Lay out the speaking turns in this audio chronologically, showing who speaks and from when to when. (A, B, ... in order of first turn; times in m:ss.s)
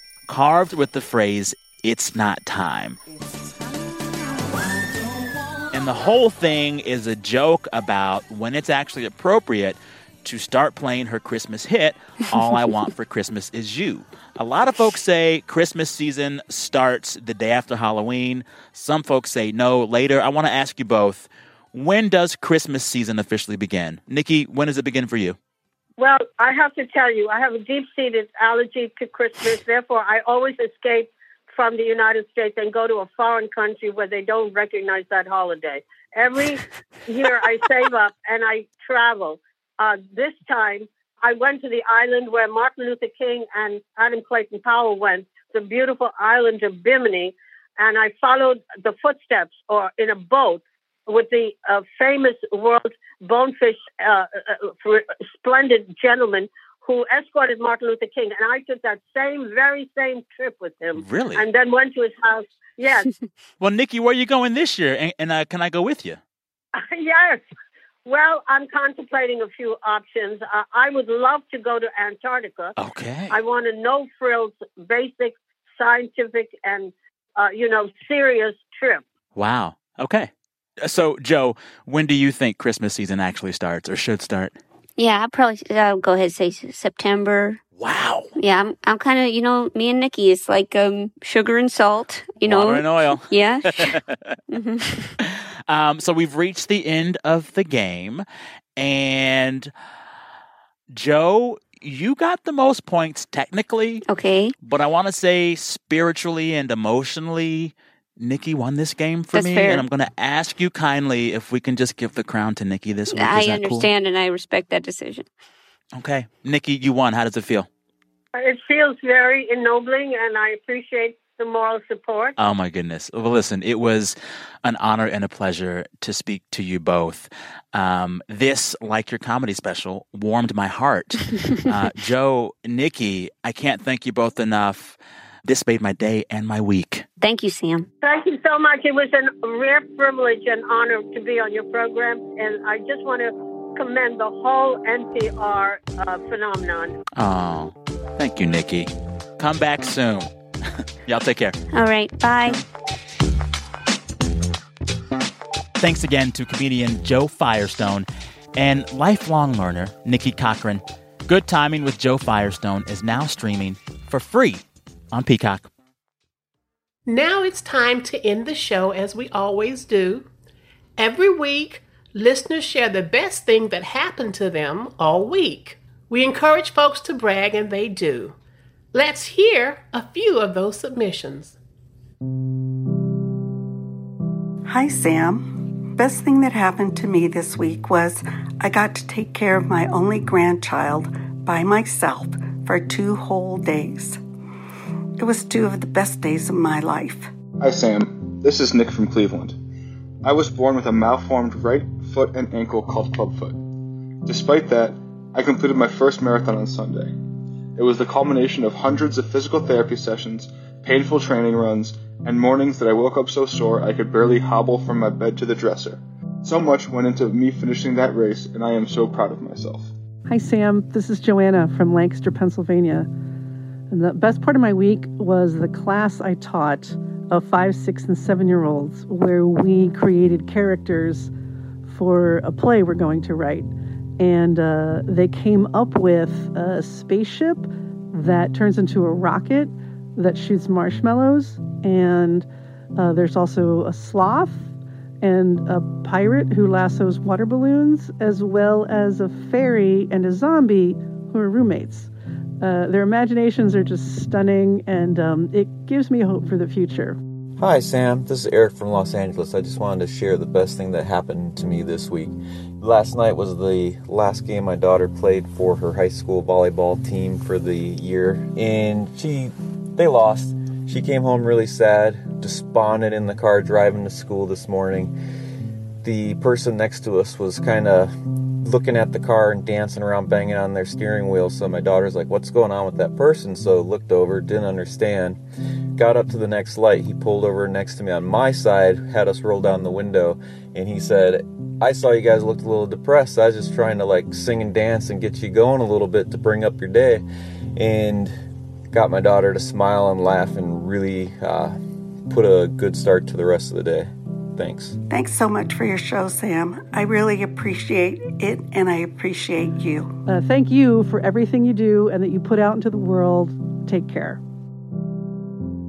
0:00.3-0:03.0 A
0:05.7-0:25.4 A
0:26.0-1:03.1 B
1:01.0-1:01.4 A
1:03.6-1:06.2 A
1:06.8-1:07.4 B
1:08.0-1:12.8 B
1:12.8-1:13.4 A
1:13.3-1:19.0 B
1:19.4-1:20.3 A
1:20.8-1:24.6 A
1:25.0-1:27.6 C
1:27.8-1:28.3 A
1:28.4-1:34.0 C
1:32.4-1:34.4 A
1:34.5-1:35.2 C
1:35.2-1:38.2 A
1:38.8-1:39.7 A
1:40.9-1:44.0 A
1:44.1-1:44.6 C
1:44.6-1:53.9 A
1:49.3-1:49.8 C
1:53.1-1:55.3 C
1:56.0-1:57.7 A
1:58.4-2:02.4 B
2:02.4-2:17.0 A
2:17.2-2:17.9 C
2:18.0-2:27.0 B
2:27.2-2:30.3 A
2:31.0-2:31.6 A
2:31.7-2:32.6 C
2:35.8-2:45.7 A
2:47.1-2:50.3 D
2:51.0-2:58.4 D
2:58.9-3:01.6 D
3:04.7-3:14.2 E
3:15.2-3:17.3 E
3:17.6-3:19.6 F
3:20.2-3:23.7 F
3:24.3-3:27.2 F
3:27.8-3:39.9 F
3:40.3-3:43.1 G
3:43.9-3:51.3 G
3:51.8-4:17.2 G
4:17.6-4:35.1 H
4:36.0-4:45.4 H
4:46.0-4:57.2 H
4:57.8-4:58.3 H
4:58.9-5:05.0 H
5:05.1-5:10.1 E
5:10.3-5:14.4 G